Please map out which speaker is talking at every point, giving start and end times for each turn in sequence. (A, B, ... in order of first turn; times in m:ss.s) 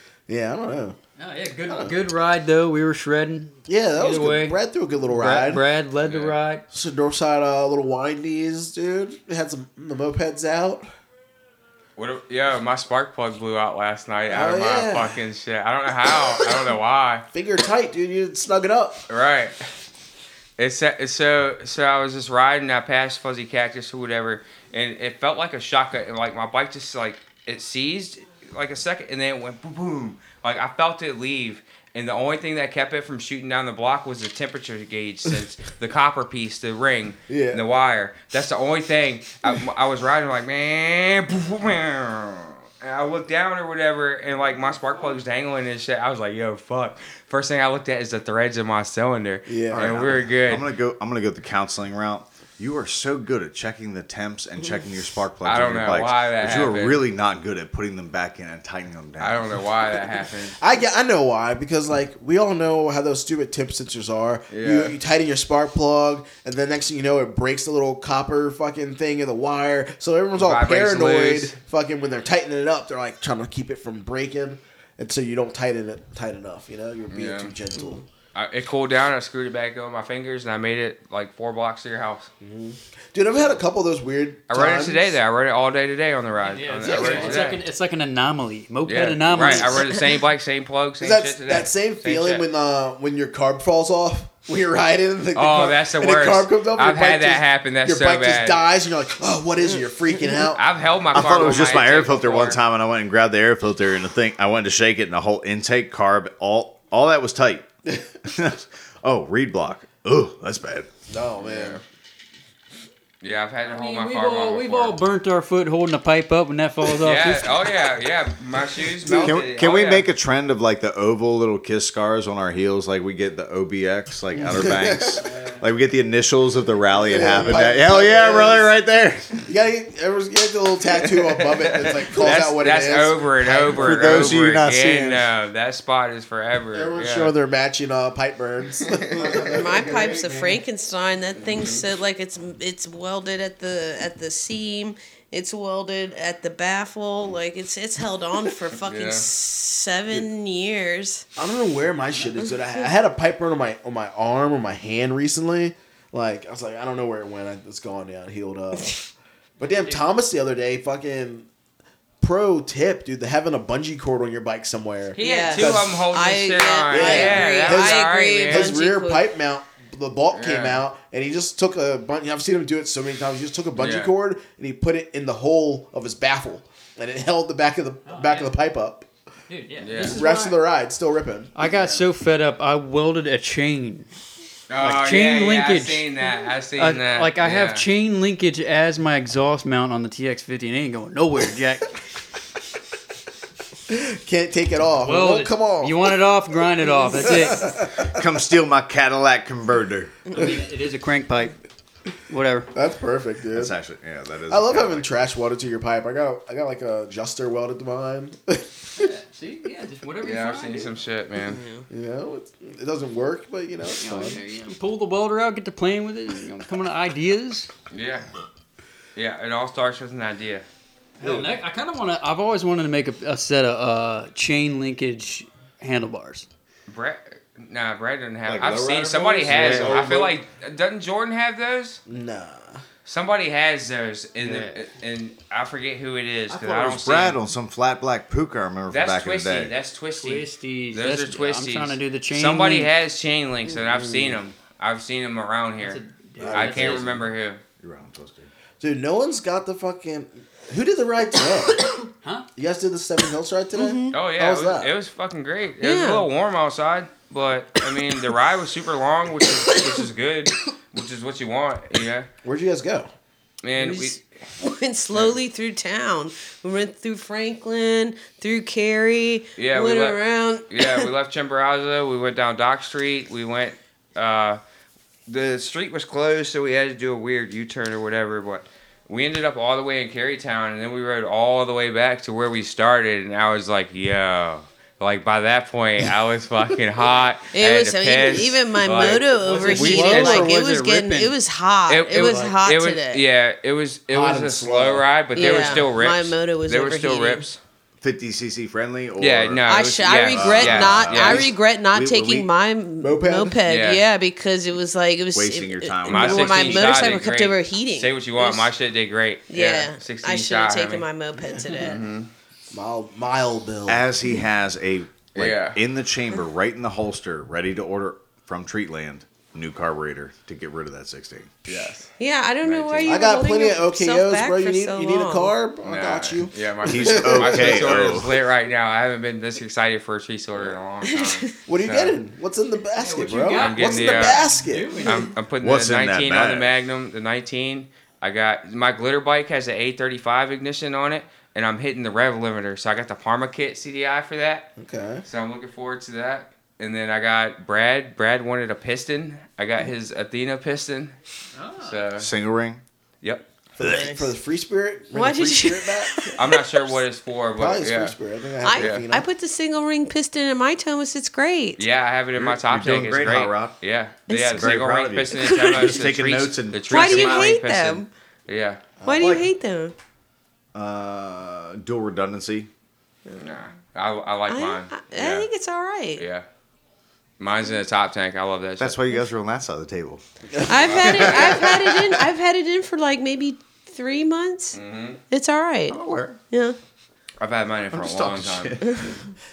0:00.3-0:01.0 A
0:01.2-0:06.6 B
0:01.7-0:02.0 A
0:03.7-0:05.6 A
0:06.1-0:06.4 C
0:06.7-0:10.9 A
0:12.0-0:17.2 C
0:14.3-0:15.2 A
0:17.3-0:19.1 A
0:19.1-0:19.6 C
0:20.6-0:50.7 C
0:37.3-0:37.6 A
0:49.5-0:49.9 A
0:49.7-0:59.5 D
0:55.4-0:57.0 C
0:59.2-1:00.6 C
1:00.6-1:18.0 A
1:04.5-1:04.9 C
1:10.4-1:11.6 C
1:17.1-1:17.5 C
1:18.4-1:22.3 C
1:22.4-1:25.2 A
1:24.5-1:27.6 C
1:26.4-1:29.9 B
1:26.8-1:27.5 A
1:28.9-1:32.5 C
1:29.4-1:30.0 E
1:31.0-1:40.6 A
1:35.4-1:38.6 C
1:39.7-1:40.4 E
1:40.6-1:42.6 C
1:41.1-1:47.7 D
1:48.3-1:50.9 D
1:51.1-1:51.8 A
1:51.4-1:51.8 C
1:53.2-1:55.0 C
1:53.6-1:57.6 B
1:57.0-2:00.1 C
1:59.1-1:59.4 A
1:59.2-2:09.4 D
2:04.5-2:05.2 A
2:07.1-2:08.7 A
2:09.5-2:14.4 A
2:11.0-2:17.3 C
2:13.7-2:15.3 D
2:16.7-2:20.3 A
2:19.1-2:31.3 E
2:19.9-2:20.1 D
2:21.5-2:21.8 C
2:28.8-2:29.3 C
2:31.4-2:39.0 A
2:32.5-2:32.8 E
2:39.6-2:41.5 A
2:42.2-2:46.0 A
2:45.2-2:48.7 C
2:45.2-2:49.2 E
2:46.9-2:59.1 A
2:50.3-2:50.8 C
2:53.8-2:54.1 C
2:58.1-2:58.5 B
2:59.5-3:00.6 B
2:59.8-3:00.2 C
3:00.0-3:01.5 A
3:01.6-3:04.1 B
3:01.6-3:02.0 C
3:04.7-3:07.8 C
3:04.8-3:06.0 B
3:06.8-3:11.9 B
3:13.9-3:16.0 A
3:15.0-3:17.7 B
3:17.2-3:18.1 A
3:18.0-3:20.2 D
3:20.3-3:21.6 B
3:22.3-3:22.7 B
3:22.7-3:23.8 A
3:23.5-3:25.1 D
3:24.5-3:29.1 A
3:29.0-3:30.9 B
3:30.2-3:31.6 C
3:31.4-3:31.9 E
3:31.9-3:34.4 A
3:34.0-3:37.7 B
3:37.9-3:38.3 C
3:39.2-3:40.6 C
3:41.2-3:46.5 B
3:46.9-3:52.0 C
3:48.5-3:50.4 D
3:49.6-3:50.0 A
3:52.1-3:52.8 A
3:53.0-3:57.4 C
3:54.4-3:54.8 B
3:56.5-3:59.7 D
3:58.9-4:06.0 C
4:00.2-4:02.9 B
4:03.8-4:04.4 A
4:05.8-4:07.1 B
4:06.4-4:07.1 A
4:06.5-4:07.0 D
4:06.5-4:07.6 C
4:07.8-4:08.5 D
4:08.8-4:11.9 A
4:12.6-4:14.9 A
4:13.8-4:14.2 E
4:14.1-4:22.3 C
4:15.8-4:16.3 E
4:22.4-4:23.1 A
4:23.6-4:24.2 C
4:24.6-4:31.1 E
4:29.6-4:30.2 C
4:30.7-4:34.6 C
4:35.3-4:50.6 C
4:47.5-4:53.2 E
4:48.9-4:51.3 B
4:51.9-4:57.6 C
4:52.2-4:52.6 B
4:54.1-4:55.8 A
4:55.4-4:57.4 E
4:55.4-4:55.7 B
4:58.0-5:02.5 D
4:59.2-5:01.5 C
4:59.7-5:08.7 E
5:03.0-5:03.6 A
5:03.7-5:04.0 C
5:05.3-5:07.2 D
5:06.1-5:11.1 C
5:09.5-5:12.0 E
5:11.4-5:11.7 A
5:11.8-5:12.3 C
5:12.7-5:14.0 A
5:13.9-5:21.6 D
5:15.3-5:15.8 C
5:21.7-5:22.1 C
5:22.2-5:25.5 E
5:22.6-5:23.2 C
5:23.0-5:27.9 A
5:25.8-5:32.2 C
5:26.8-5:28.3 D
5:31.1-5:31.5 E
5:31.7-5:35.0 A
5:33.0-5:35.3 B
5:33.5-5:34.4 C
5:35.0-5:44.7 C
5:35.6-5:36.7 D
5:44.8-5:45.2 A
5:45.2-5:51.2 C
5:51.6-5:52.0 B
5:51.8-5:52.3 C
5:52.2-5:52.8 D
5:53.8-5:56.4 A
5:55.1-5:56.6 E
5:56.4-5:58.2 C
5:57.6-5:59.3 A
5:58.6-6:01.8 E
5:58.8-5:59.0 C
6:01.8-6:08.8 C
6:02.4-6:03.8 D
6:04.3-6:04.7 E
6:04.5-6:07.5 D
6:05.3-6:06.0 E
6:06.9-6:08.1 E
6:09.0-6:09.5 A
6:09.0-6:10.0 E
6:09.2-6:09.5 D
6:10.7-6:12.7 D
6:13.4-6:15.5 C
6:14.5-6:16.2 E
6:16.2-6:16.5 C
6:17.4-6:19.0 C
6:18.8-6:20.2 D
6:20.5-6:21.3 A
6:20.7-6:24.8 E
6:20.8-6:21.6 C
6:21.0-6:22.2 D
6:24.7-6:25.2 C
6:25.3-6:26.0 E
6:25.9-6:26.4 D
6:26.5-6:26.8 E
6:27.4-6:28.8 C
6:27.9-6:28.9 D
6:28.8-6:29.3 E